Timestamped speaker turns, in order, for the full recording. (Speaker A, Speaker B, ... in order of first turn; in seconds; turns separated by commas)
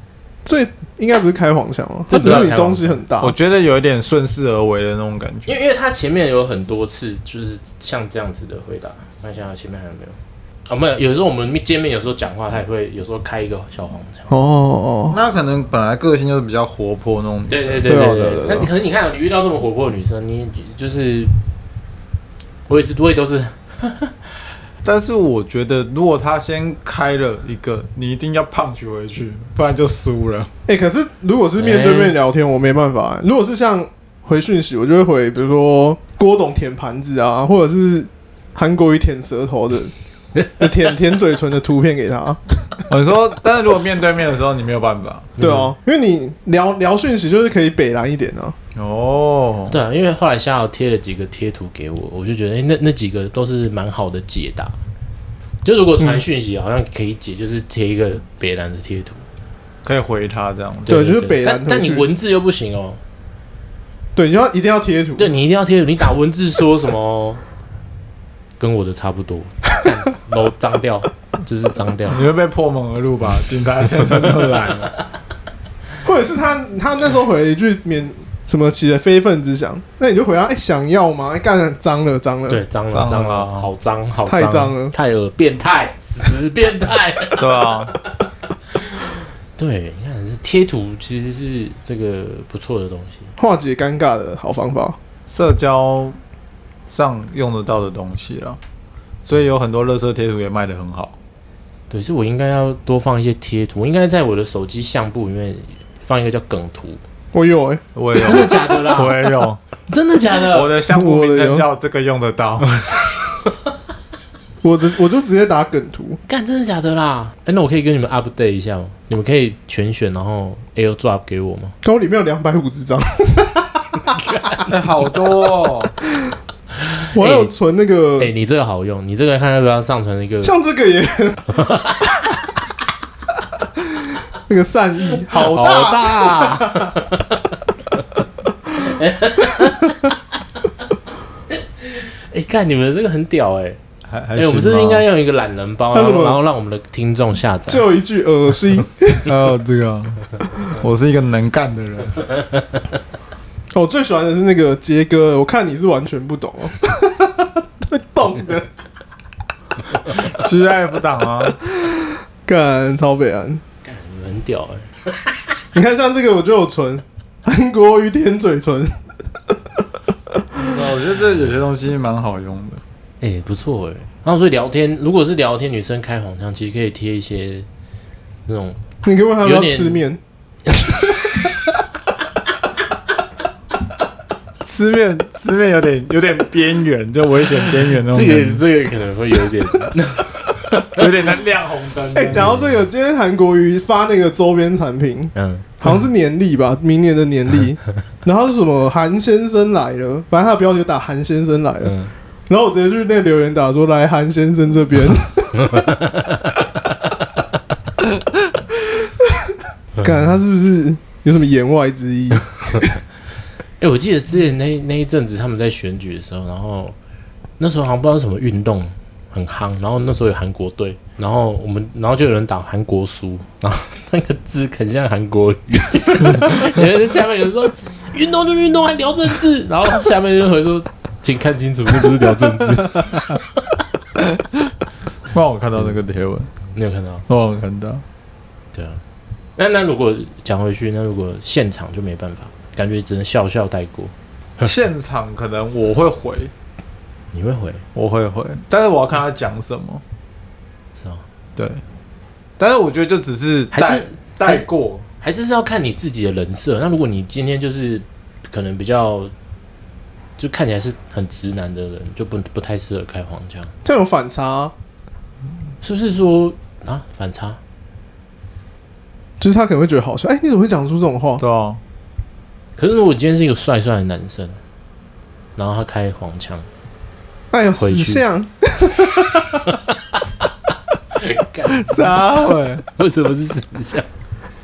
Speaker A: 0.5-3.4, Speaker B: 2.1-3.0, Speaker C: 2.2-2.5, Speaker C: 3.2-5.5, Speaker B: 5.5-14.3, Speaker A: 14.3-15.2, Speaker C: 15.1-18.3, Speaker B: 17.5-21.3, Speaker A: 17.9-18.7, Speaker B: 22.7-24.2, Speaker C: 24.8-30.5, Speaker A: 30.7-39.9, Speaker B: 31.6-32.1, Speaker A: 40.6-42.4, Speaker C: 42.9-45.4, Speaker B: 45.4-45.7, Speaker A: 45.4-48.6, Speaker C: 48.8-49.8, Speaker B: 49.7-54.8, Speaker B: 55.6-59.2, Speaker C: 59.8-61.0, Speaker A: 60.9-62.1, Speaker B: 60.9-63.0, Speaker A: 64.2-65.3, Speaker B: 65.2-67.4, Speaker B: 68.6-72.2, Speaker C: 72.1-74.9, Speaker A: 76.0-82.6, Speaker B: 82.5-87.7, Speaker C: 82.9-83.7, Speaker A: 84.3-84.9, Speaker C: 87.4-88.0, Speaker B: 88.8-93.3, Speaker A: 93.4-95.0, Speaker C: 95.3-96.2, Speaker C: 96.9-98.6, Speaker C: 99.2-101.2, Speaker B: 101.9-107.0, Speaker A: 107.3-108.5, Speaker C: 108.0-109.6, Speaker B: 108.2-109.2, Speaker B: 109.9-110.7, Speaker C: 110.4-112.7, Speaker A: 110.9-111.7, Speaker A: 114.6-116.2, Speaker B: 116.3-121.8, Speaker A: 121.8-124.5, Speaker B: 124.2-124.7, Speaker C: 124.7-125.9, Speaker B: 126.8-127.5, Speaker A: 127.1-128.3, Speaker B: 128.2-130.6, Speaker A: 130.4-131.5, Speaker B: 131.5-132.1, Speaker A: 133.8-137.0, Speaker B: 135.3-137.4, Speaker B: 138.8-140.6, Speaker B: 141.5-143.8, Speaker C: 144.1-145.1, Speaker B: 144.3-147.9, Speaker A: 145.9-146.4, Speaker A: 147.7-149.4, Speaker C: 149.2-152.2, Speaker A: 153.7-158.7, Speaker C: 160.2-161.6, Speaker A: 161.8-163.6, Speaker B: 163.8-165.4, Speaker A: 165.7-169.0, Speaker C: 170.6-172.8, Speaker B: 173.2-177.7, Speaker B: 178.4-178.8, Speaker A: 179.0-180.2, Speaker B: 179.4-180.0, Speaker C: 184.6-188.6, Speaker B: 187.7-191.0, Speaker C: 190.9-192.6, Speaker A: 192.2-201.9, Speaker B: 192.3-192.8, Speaker B: 195.3-195.8, Speaker B: 201.8-202.1, Speaker A: 202.5-205.9, Speaker B: 205.6-206.5, Speaker A: 210.0-213.0, Speaker B: 213.8-217.0, Speaker B: 217.6-233.7, Speaker C: 235.3-236.5, Speaker B: 236.7-237.3, Speaker C: 237.3-238.0, Speaker B: 238.7-239.0, Speaker B: 239.6-244.7, Speaker C: 244.6-246.5, Speaker B: 247.3-247.8, Speaker C: 247.9-250.0, Speaker B: 251.0-251.2, Speaker C: 251.6-251.8, Speaker C: 252.6-255.1, Speaker B: 253.7-254.7, Speaker B: 255.2-259.3, Speaker B: 260.4-263.7, Speaker A: 263.9-264.7, Speaker B: 265.8-267.6, Speaker A: 269.4-271.4, Speaker C: 271.4-271.8, Speaker B: 272.8-274.6, Speaker B: 275.6-276.7, Speaker A: 277.5-279.6, Speaker B: 277.8-278.2, Speaker B: 279.7-280.2, Speaker B: 281.1-282.2, Speaker C: 281.8-282.8, Speaker A: 282.0-282.6, Speaker B: 282.8-284.1